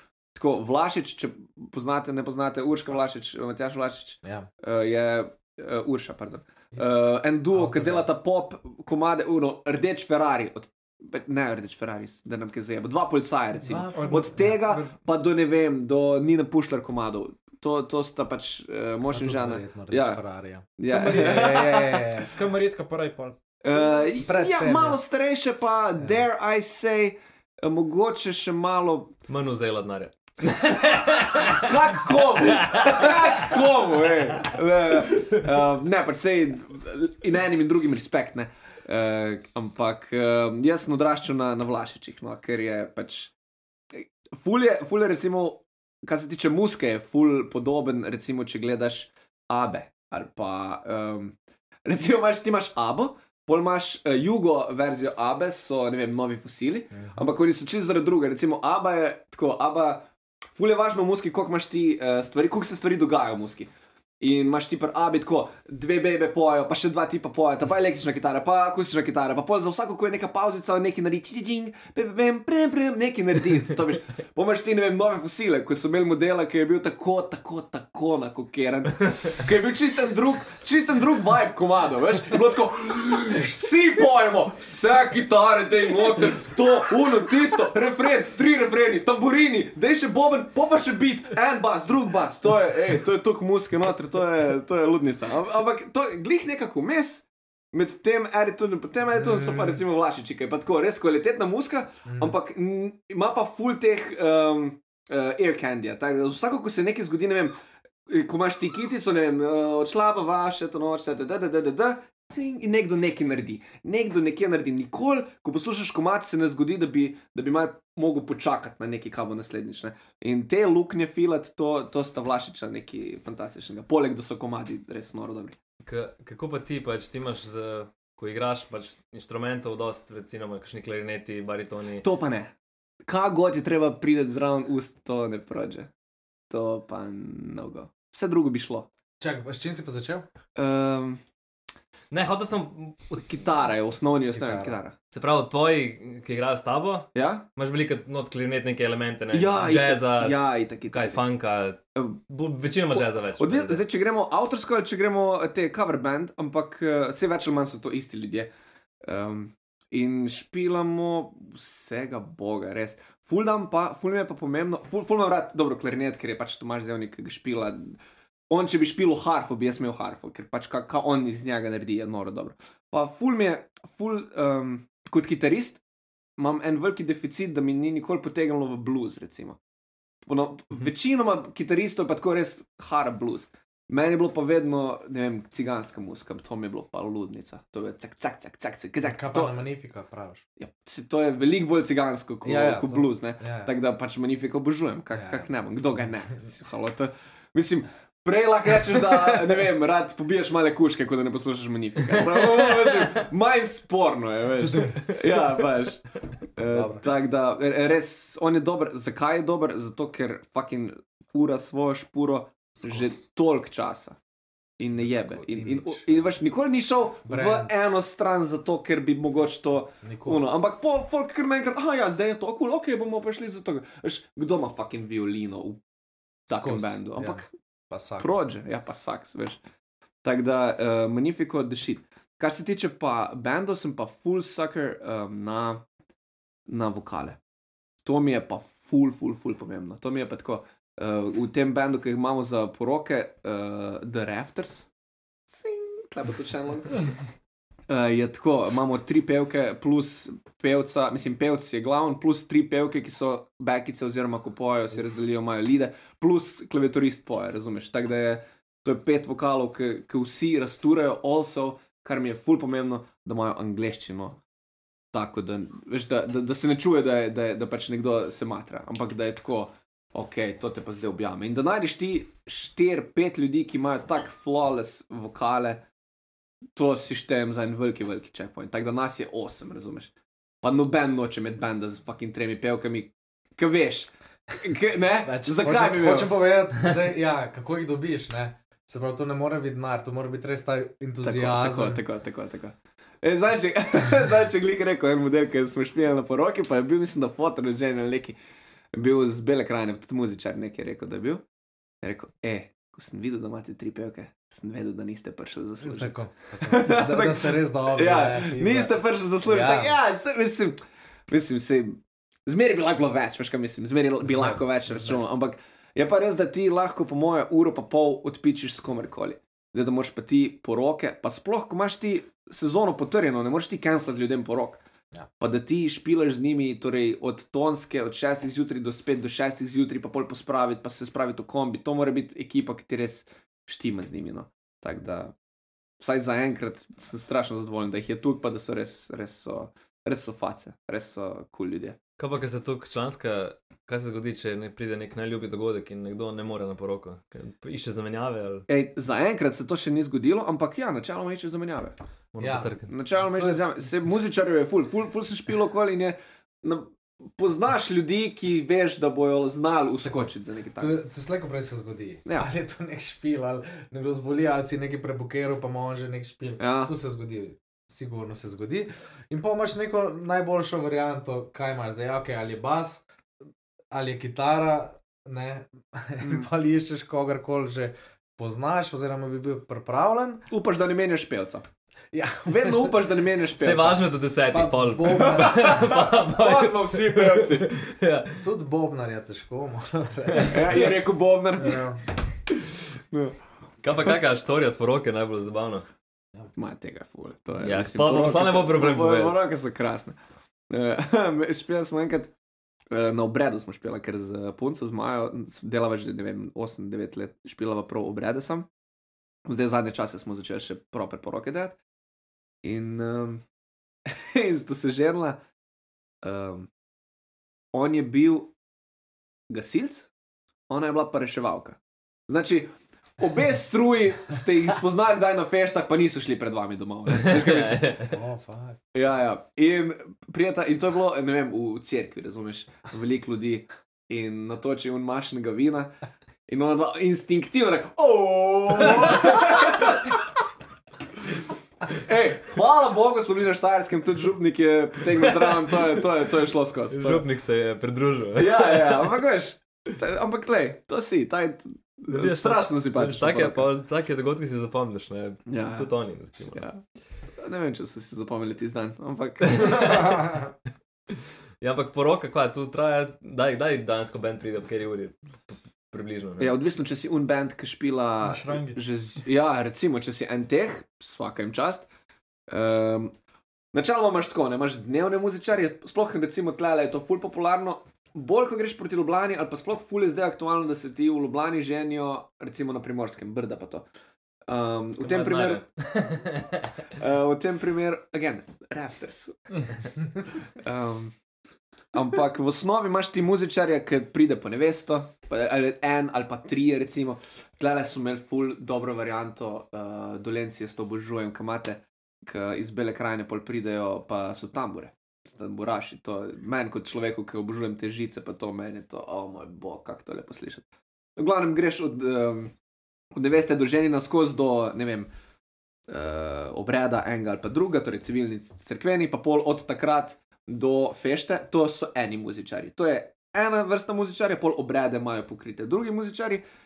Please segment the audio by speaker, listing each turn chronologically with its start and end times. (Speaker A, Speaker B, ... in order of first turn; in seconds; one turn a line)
Speaker A: 0.3-20.2
Speaker B: 4.2-4.5
Speaker B: 7.5-8.1
Speaker B: 13.7-14.6
Speaker C: 13.9-14.9
Speaker B: 19.1-22.3
Speaker A: 20.8-22.3
Speaker C: 20.9-21.6
Speaker C: 22.3-23.4
Speaker A: 23.6-29.1
Speaker B: 24.2-25.0
Speaker D: 29.3-31.8
Speaker A: 31.4-43.3
Speaker D: 32.4-33.2
Speaker A: 43.9-107.5
Speaker B: 56.9-57.2
Speaker B: 99.2-99.8
Speaker B: 102.0-102.3
Speaker A: 108.1-125.6
Speaker D: 125.8-132.1
Speaker A: 132.0-132.5
Speaker A: 133.1-135.9
Speaker A: 136.5-138.9
Speaker B: 139.2-140.3
Speaker A: 140.6-141.2
Speaker D: 142.1-143.4
Speaker A: 143.2-145.0
Speaker B: 144.3-144.8
Speaker D: 145.1-150.4
Speaker A: 147.2-147.5
Speaker A: 149.3-151.2
Speaker D: 150.9-153.8
Speaker A: 152.9-158.5
Speaker A: 159.0-168.0
Speaker A: 168.5-175.8
Speaker A: 176.4-179.6
Speaker A: 180.2-189.6
Speaker B: 189.0-190.4
Speaker A: 190.6-214.2
Speaker B: 192.4-193.7
Speaker B: 195.1-195.5
Speaker B: 204.6-205.3
Speaker B: 206.7-207.1
Speaker B: 212.8-213.2
Speaker A: 214.8-225.8
Speaker B: 214.9-216.1
Speaker B: 217.3-217.7
Speaker B: 220.0-220.4
Speaker A: 226.5-227.5
Speaker B: 226.5-228.5
Speaker A: 228.2-229.6
Speaker A: 230.2-235.8
Speaker A: 236.7-237.4
Speaker A: 238.1-244.9
Speaker A: 245.5-247.1
Speaker A: 247.9-264.4
Speaker A: 265.1-275.8
Speaker A: 276.8-286.4
Speaker B: 285.2-292.0
Speaker A: 291.2-298.4
Speaker A: 298.9-301.4
Speaker A: 302.0-310.8
Speaker B: 305.8-310.0
Speaker A: 311.3-324.8
Speaker B: 314.2-315.2
Speaker A: 325.4-335.3
Speaker A: 336.0-342.0
Speaker D: 342.2-348.7
Speaker A: 348.7-352.0
Speaker D: 352.3-352.9
Speaker B: 352.4-353.9
Speaker A: 352.9-361.0
Speaker B: 360.8-373.0
Speaker A: 366.6-366.9
Speaker B: 373.9-380.4
Speaker A: 376.2-376.5
Speaker A: 380.5-381.6
Speaker B: 382.1-382.9
Speaker A: 382.5-384.0
Speaker D: 383.6-388.4
Speaker B: 384.5-385.9
Speaker A: 385.1-387.7
Speaker B: 388.4-390.9
Speaker D: 390.3-390.8
Speaker A: 390.5-391.9
Speaker B: 391.6-392.0
Speaker A: 393.1-393.4
Speaker D: 393.8-395.9
Speaker A: 396.6-400.2
Speaker D: 397.6-399.4
Speaker A: 400.7-402.3
Speaker A: 402.9-408.7
Speaker A: 409.5-411.8
Speaker A: 412.6-413.4
Speaker A: 414.1-415.4
Speaker A: 416.2-416.7
Speaker A: 417.7-418.5
Speaker A: 419.5-420.1
Speaker A: 420.7-428.0
Speaker D: 427.1-428.1
Speaker B: 428.1-428.8
Speaker A: 428.9-435.9
Speaker A: 436.5-440.3
Speaker D: 439.0-439.4
Speaker A: 442.0-447.2
Speaker D: 445.2-446.0
Speaker D: 446.9-449.1
Speaker A: 448.4-453.7
Speaker D: 452.1-456.7
Speaker A: 455.5-455.9
Speaker A: 456.5-456.8
Speaker A: 457.4-460.1
Speaker D: 459.5-460.4
Speaker D: 461.6-466.5
Speaker A: 466.4-471.9
Speaker C: 468.2-468.8
Speaker A: 472.5-473.1
Speaker A: 473.7-483.9
Speaker A: 484.5-485.6
Speaker D: 485.0-486.7
Speaker A: 486.9-489.6
Speaker A: 490.3-491.1
Speaker A: 491.9-512.5
Speaker A: 513.1-515.1
Speaker A: 515.9-526.4